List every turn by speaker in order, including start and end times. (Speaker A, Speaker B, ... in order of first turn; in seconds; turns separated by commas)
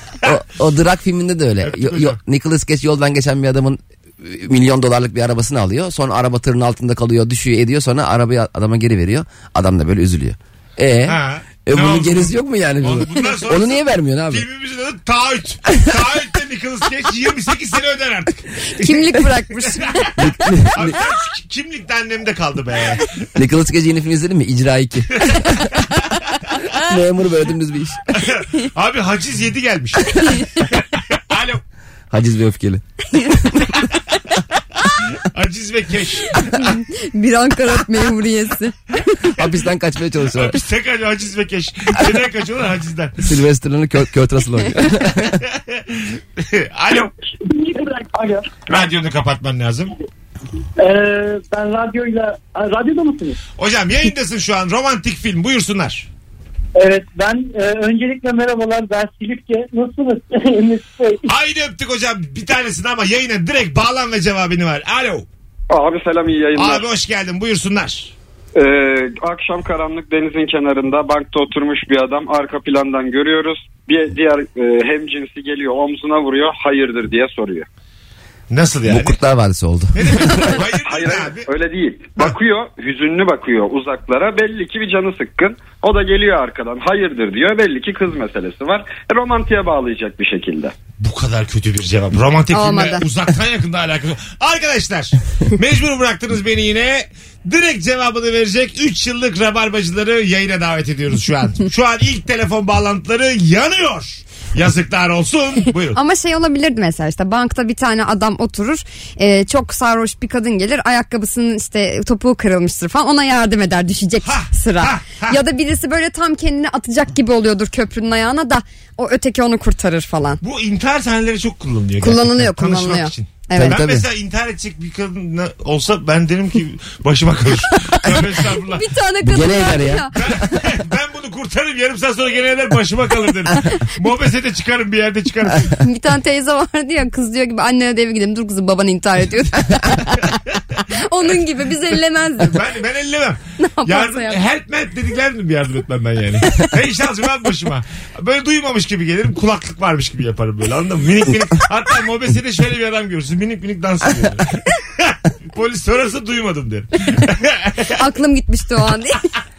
Speaker A: 0.2-14.4, Speaker B: 1.6-2.1, Speaker B: 11.1-20.1, Speaker C: 18.7-20.1, Speaker A: 20.2-20.9, Speaker B: 20.7-23.2, Speaker A: 23.4-25.7, Speaker A: 26.8-28.0, Speaker B: 28.1-31.6, Speaker A: 32.1-33.4, Speaker B: 35.1-36.8, Speaker C: 36.6-38.8, Speaker A: 39.4-40.6, Speaker B: 40.3-43.2, Speaker A: 43.2-45.4, Speaker B: 45.4-47.1, Speaker D: 47.4-48.5, Speaker B: 48.7-49.9, Speaker D: 50.8-53.4, Speaker B: 53.6-56.1, Speaker D: 56.7-61.3, Speaker B: 61.3-65.3, Speaker E: 65.7-66.8, Speaker B: 66.5-68.1, Speaker E: 68.5-77.7, Speaker B: 78.5-79.2, Speaker A: 78.9-80.6, Speaker B: 79.9-81.5, Speaker E: 80.8-90.7, Speaker B: 91.0-106.0, Speaker C: 92.5-93.0, Speaker C: 105.9-120.4, Speaker B: 114.2-115.4, Speaker B: 120.4-128.8, Speaker C: 122.0-123.9, Speaker A: 123.5-124.0, Speaker C: 128.7-130.4, Speaker A: 129.2-130.3, Speaker B: 130.1-135.7, Speaker C: 135.8-140.3, Speaker C: 140.9-142.6, Speaker B: 142.4-157.9, Speaker C: 143.6-144.4, Speaker C: 157.9-159.2